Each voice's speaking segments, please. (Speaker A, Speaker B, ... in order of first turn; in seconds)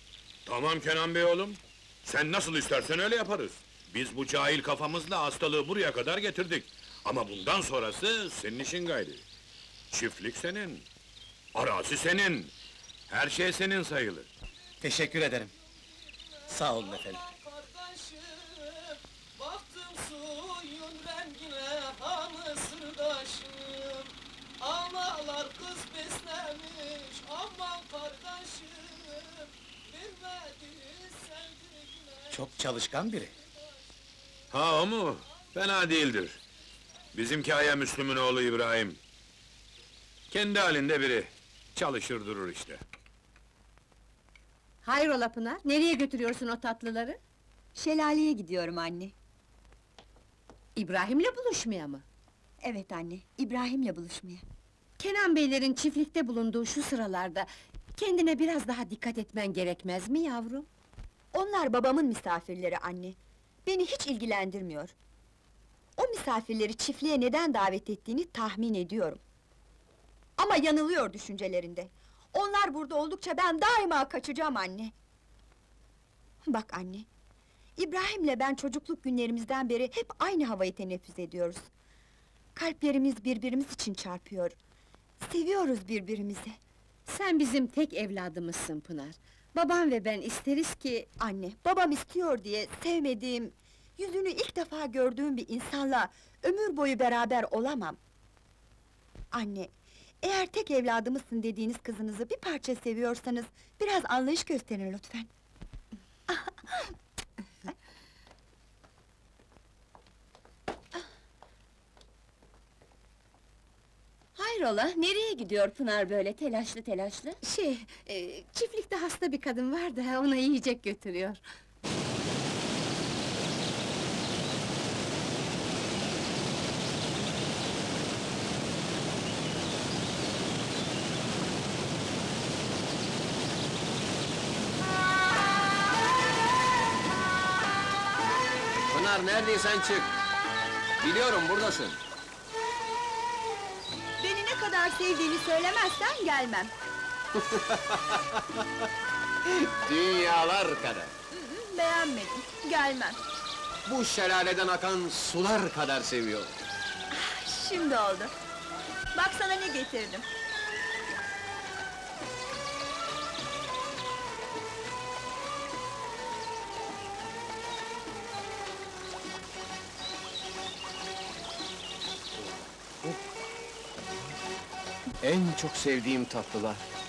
Speaker A: 0.5-9.2, 9.9-10.8, 11.5-12.5, 13.1-14.3, 34.5-36.4, 37.1-39.0, 40.3-42.8
Speaker B: 14.8-15.5, 16.5-17.2, 32.3-33.3
Speaker C: 15.9-32.7
Speaker D: 44.8-47.2, 50.8-52.0, 55.0-60.7, 87.0-91.1, 117.4-121.4
Speaker E: 47.8-49.1, 52.6-54.4, 61.3-64.9, 66.0-69.2, 70.4-74.9, 76.5-77.1, 77.8-81.7, 82.5-84.5, 85.2-86.6, 91.2-98.0, 99.3-99.7, 100.2-105.3, 106.3-106.8, 144.2-146.7, 151.3-153.2, 157.1-158.3, 159.1-160.3
Speaker F: 114.3-117.4
Speaker G: 138.9-140.0, 141.0-142.0, 149.9-151.1, 153.9-156.5, 175.2-176.8